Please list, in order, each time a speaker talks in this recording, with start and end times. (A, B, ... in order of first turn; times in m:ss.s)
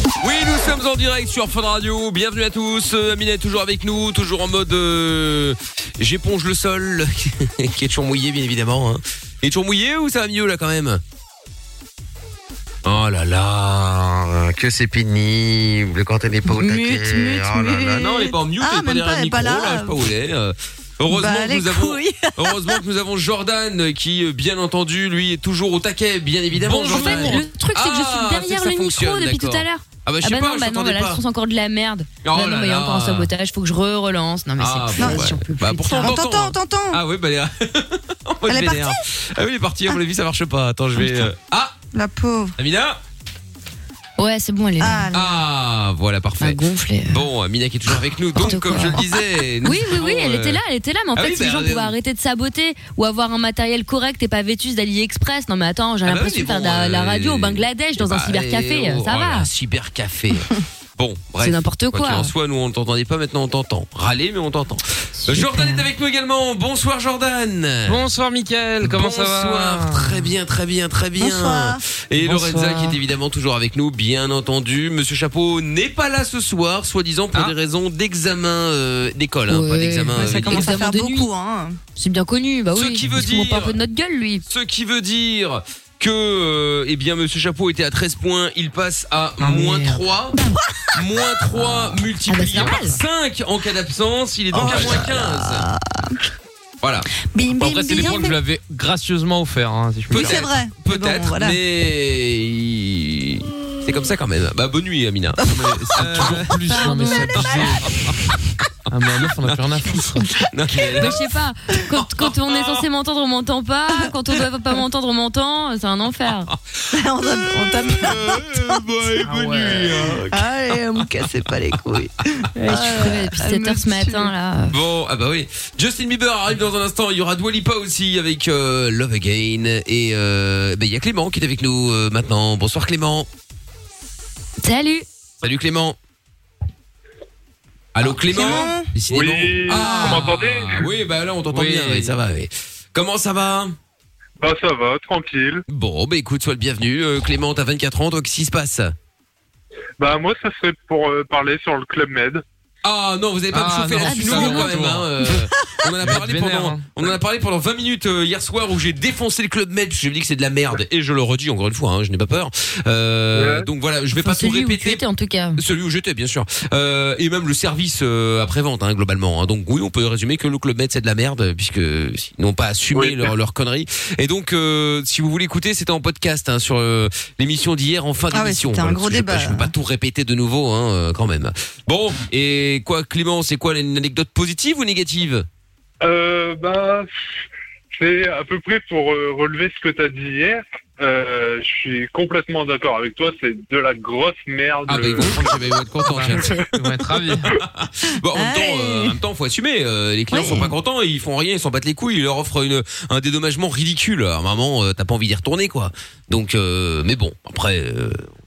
0:00.2-0:11.0 A
0:12.8-0:31.2 A
0:16.4-0:20.0 B
0:21.1-0:22.8 B
0:26.6-0:27.4 C
0:26.8-0:36.2 D
0:32.2-0:33.3 A
0:34.6-0:41.8 A
0:35.0-0:35.3 B
0:35.9-0:37.0 B
0:38.5-0:39.0 B
0:41.0-0:41.3 B
0:41.9-0:42.6 B
0:42.6-0:43.0 A
0:44.2-0:45.1 D
0:44.8-0:45.4 B
0:45.1-0:50.6 A
0:46.4-0:47.2 D
0:48.4-0:49.0 D
0:49.6-0:59.5 D
0:51.1-0:51.9 A
0:56.0-1:08.0 A
1:01.4-1:02.3 D
1:05.2-1:05.9 D
1:07.9-1:10.3 C
1:08.8-1:20.8 A
1:11.2-1:11.8 B
1:19.5-1:21.3 D
1:20.2-1:21.8 B
1:22.0-1:24.4 D
1:22.7-1:23.8 A
1:24.5-1:30.4 A
1:29.4-1:30.0 D
1:30.9-1:35.7 A
1:31.6-1:33.0 D
1:34.5-1:36.2 B
1:36.8-1:37.1 A
1:37.3-1:38.4 B
1:37.5-1:40.4 C
1:37.9-1:38.2 A
1:40.1-1:48.3 A
1:40.1-1:41.6 B
1:45.4-1:47.8 B
1:46.0-1:47.9 C
1:48.9-1:50.3 C
1:50.4-1:51.2 A
1:51.0-1:56.5 D
1:52.0-1:52.8 A
1:56.9-1:58.8 B
1:57.3-2:00.5 A
1:59.2-2:00.1 C
2:00.3-2:04.3 B
2:02.6-2:04.8 D
2:04.7-2:13.3 A
2:14.6-2:15.1 D
2:15.4-2:16.0 A
2:18.0-2:23.8 A
2:18.0-2:19.0 B
2:19.1-2:20.8 E
2:21.5-2:22.1 C
2:24.4-2:25.6 E
2:25.7-2:28.9 A
2:30.0-2:32.4 E
2:32.8-2:45.0 A
2:33.5-2:35.1 C
2:34.0-2:34.8 D
2:36.0-2:37.1 C
2:43.3-2:43.7 E
2:44.2-2:45.6 D
2:45.6-3:05.5 A
2:53.0-2:53.3 E
2:58.3-2:59.7 B
3:06.0-3:07.1 E
3:07.9-3:15.5 E
3:14.9-3:15.4 C
3:14.9-3:28.3 A
3:16.1-3:17.5 C
3:18.3-3:19.2 B
3:20.3-3:20.7 B